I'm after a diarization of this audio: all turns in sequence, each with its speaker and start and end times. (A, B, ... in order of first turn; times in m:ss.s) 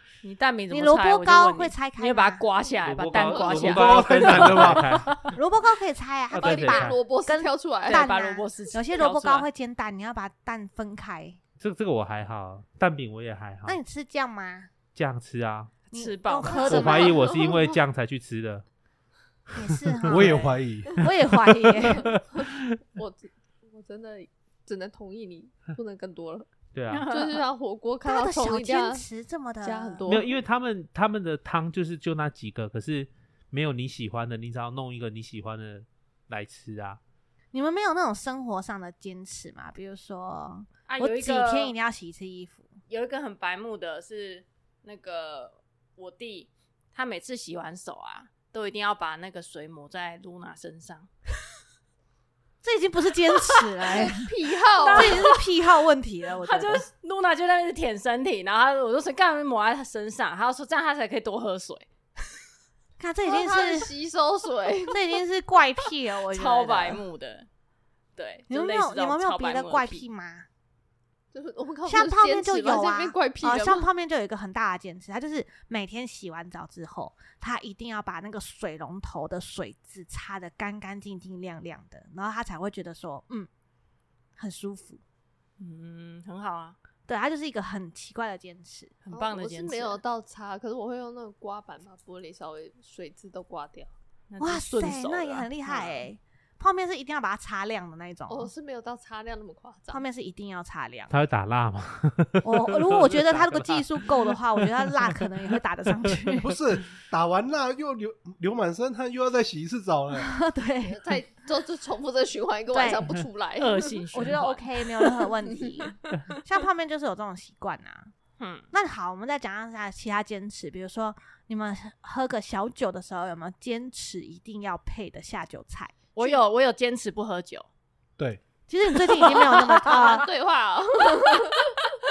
0:00.2-0:05.3 A
0:00.7-0:02.4 B
0:02.8-0:05.2 C
0:03.3-0:03.8 D
0:03.6-0:05.1 E
0:05.3-0:11.4 B
0:06.3-0:07.0 C
0:06.4-0:08.1 D
0:07.9-0:09.5 A
0:11.6-0:13.8 C
0:13.7-0:14.7 B
0:15.0-0:15.7 C
0:15.9-0:17.6 A
0:15.9-0:17.4 B
0:16.6-0:18.6 C
0:19.6-0:22.2 B
0:19.8-0:20.3 C
0:20.0-0:21.0 E
0:21.0-0:22.8 C
0:22.4-0:26.5 D
0:26.7-0:27.1 C
0:26.9-0:27.4 A
0:27.1-0:29.0 D
0:28.0-0:30.1 B
0:29.6-0:30.4 D
0:30.0-0:37.0 C
0:37.5-0:42.7 B
0:40.9-0:41.7 A
0:42.9-0:51.1 A
0:52.6-0:54.3 B
0:54.0-0:55.2 D
0:54.8-0:55.5 A
0:54.9-0:56.8 B
0:56.4-1:01.9 A
1:03.0-1:03.9 B
1:03.3-1:05.0 D
1:04.9-1:07.0 B
1:06.3-1:07.5 A
1:08.2-1:10.0 A
1:08.5-1:10.5 B
1:11.3-1:13.8 D
1:11.9-1:23.5 B
1:24.4-1:25.0 B
1:25.6-1:26.8 A
1:27.1-1:28.9 B
1:29.0-1:30.0 A
1:29.1-1:33.9 D
1:34.3-1:36.1 A
1:34.4-1:38.5 B
1:38.3-1:40.0 D
1:39.9-1:41.1 B
1:41.1-1:45.3 C
1:42.4-1:46.6 B
1:46.4-1:50.3 E
1:50.2-1:51.0 B
1:50.8-1:54.5 D
1:52.7-1:53.2 B
1:53.6-1:54.7 A
1:54.1-1:58.1 B
1:55.0-1:56.0 D
1:58.4-1:58.7 A
1:58.7-2:05.9 B
2:06.1-2:07.7 A
2:08.7-2:10.3 B
2:09.1-2:11.7 D
2:11.1-2:11.5 B